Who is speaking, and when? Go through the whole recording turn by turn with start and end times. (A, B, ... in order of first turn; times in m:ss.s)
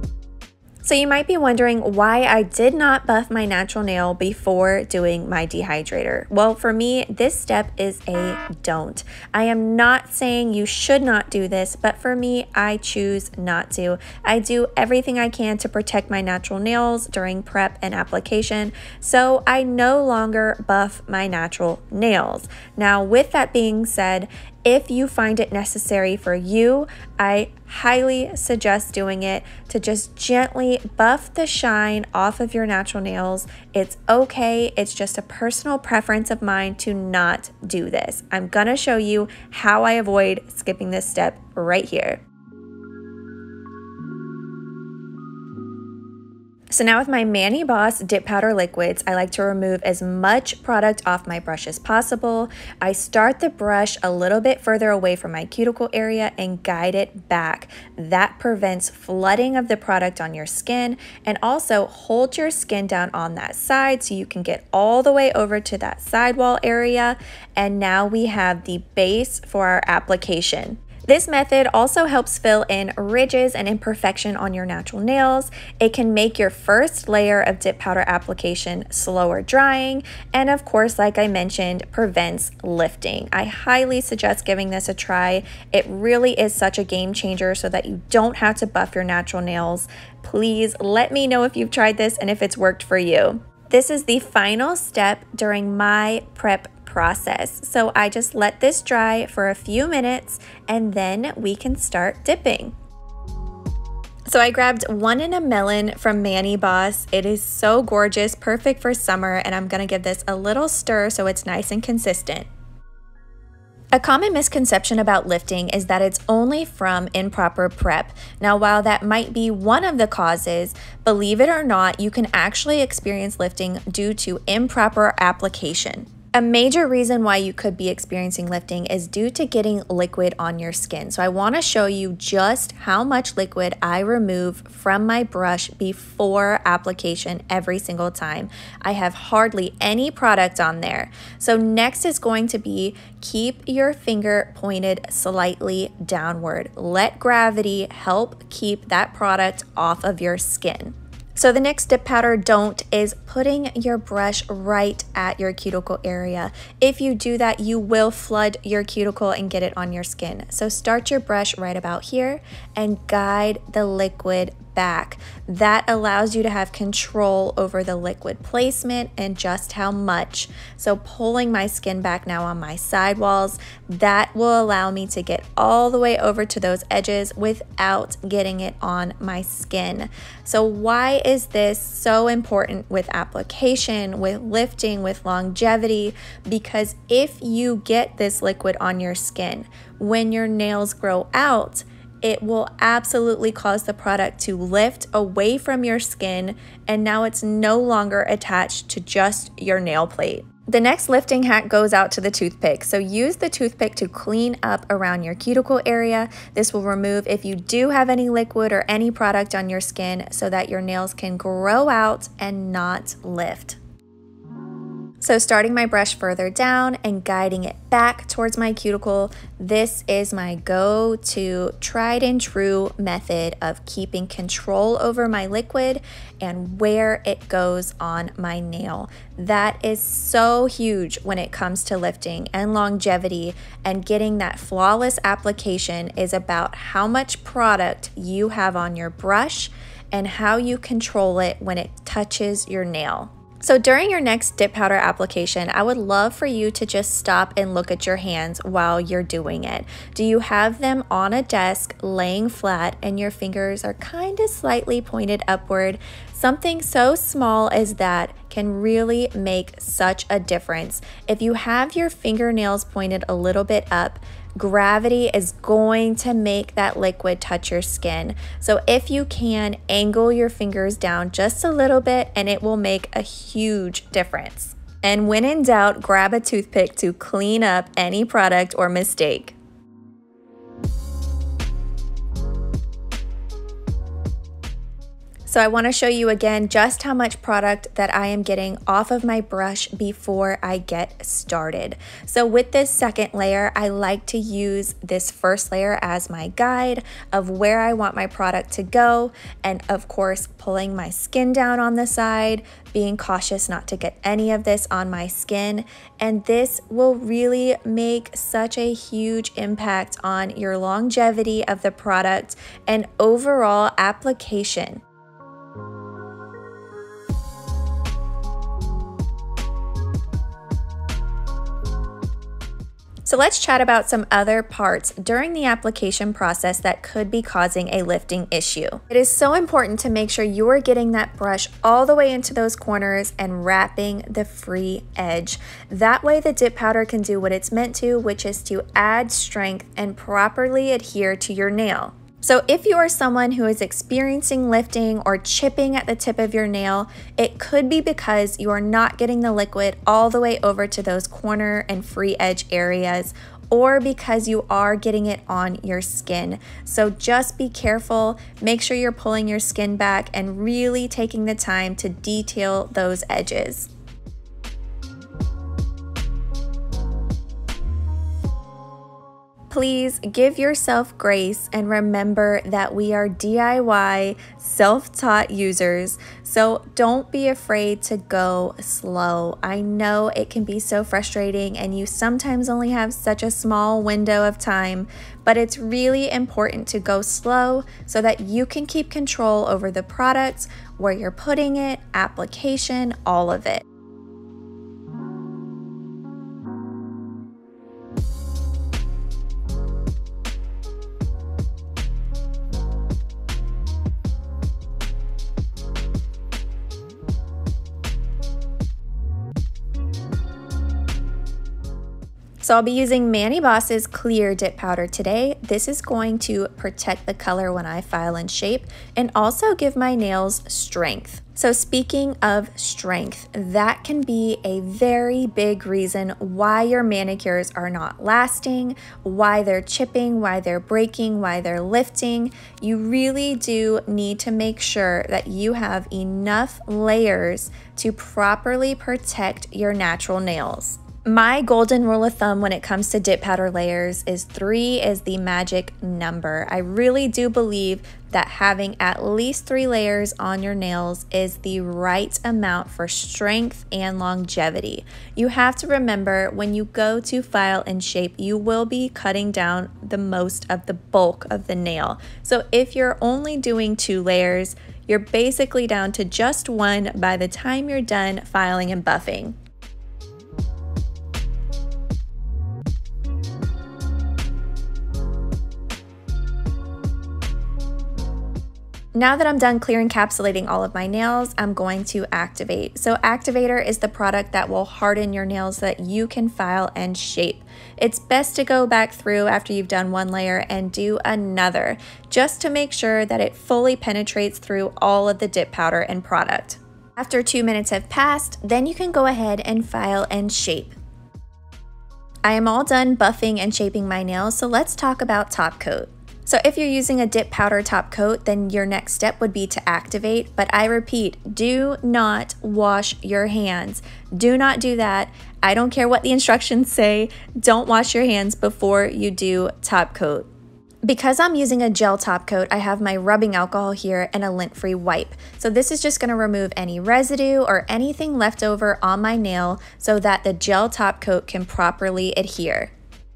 0:00.8-0:42.2 A
0:46.7-1:42.7 A
1:44.3-1:52.5 A
1:53.9-3:33.8 A
3:35.2-4:39.6 A
4:45.5-5:15.0 A
5:23.2-6:03.9 A
6:09.7-6:33.8 A
6:52.6-7:49.5 A
7:59.1-8:20.9 A
8:22.4-8:40.5 A
8:41.0-8:52.9 A